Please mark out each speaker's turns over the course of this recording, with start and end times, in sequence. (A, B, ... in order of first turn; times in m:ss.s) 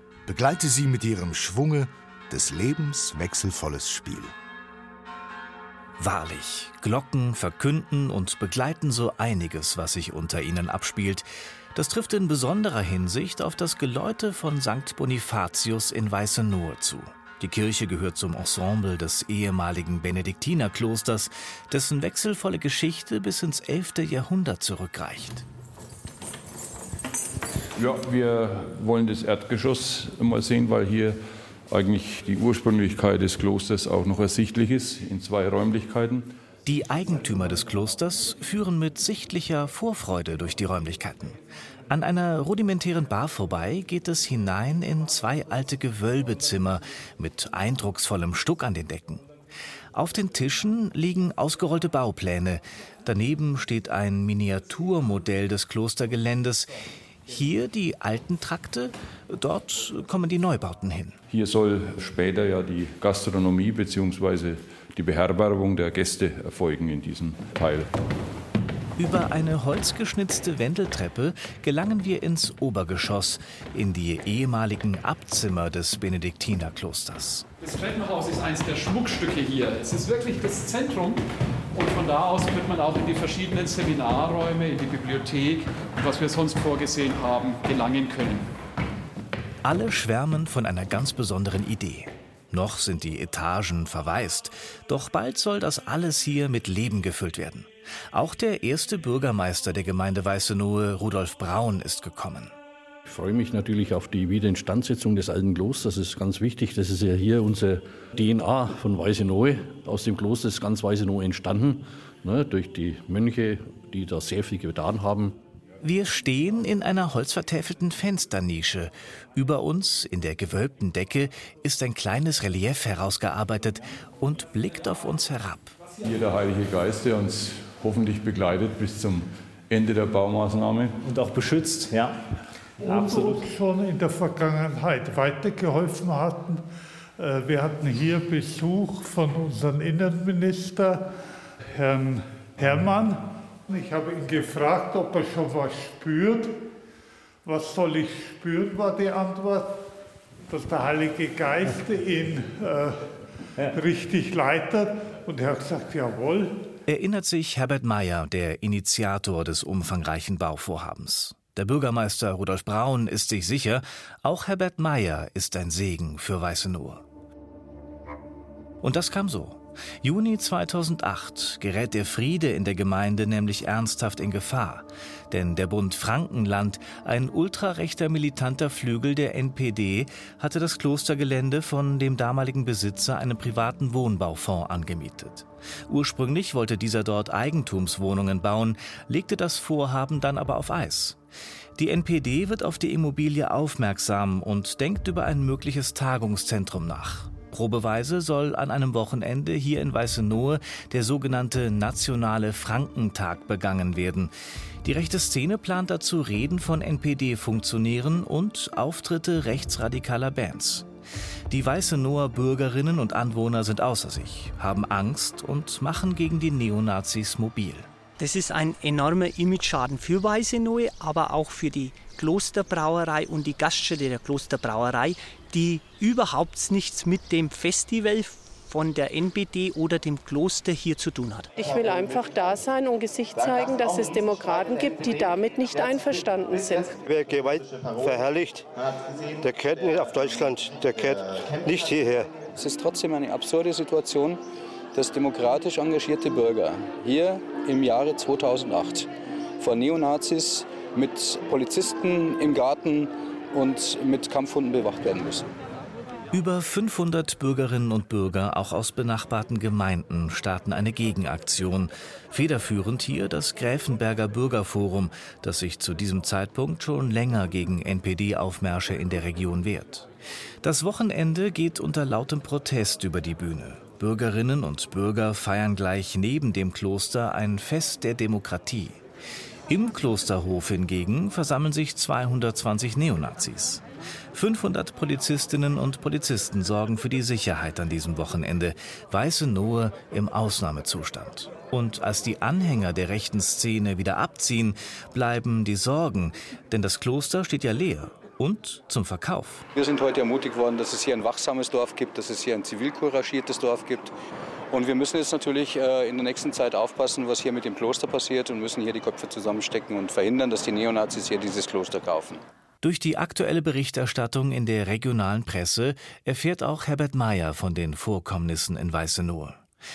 0:00.3-0:04.3 A
0:06.0-0:25.4 B
0:27.8-0:36.3 C
0:36.6-0:49.2 B
0:49.9-0:56.7 B
0:57.3-1:01.2 B
1:01.3-1:07.9 C
1:09.0-1:17.5 B
1:17.6-1:28.5 D
1:29.6-1:42.5 B
1:43.0-1:55.4 E
1:55.8-2:05.8 B
2:05.9-2:11.0 C
2:12.8-2:16.6 F
2:17.2-2:21.1 F
2:21.8-2:26.6 F
2:27.4-2:29.8 F
2:30.5-2:33.1 F
2:33.7-2:36.5 F
2:36.9-2:47.0 B
2:48.8-3:11.2 B
3:11.8-3:24.3 B
3:24.8-3:30.9 B
3:31.5-3:37.9 B
3:38.2-3:51.5 G
3:51.6-3:57.0 H
3:57.0-3:58.7 I
3:59.4-4:02.4 I
4:02.5-4:04.4 J
4:04.9-4:09.1 J
4:09.6-4:15.5 J
4:16.3-4:30.1 B
4:30.6-4:39.0 B
4:39.7-4:59.6 B
4:59.8-5:04.1 J
5:04.7-5:12.4 J
5:12.8-5:19.6 B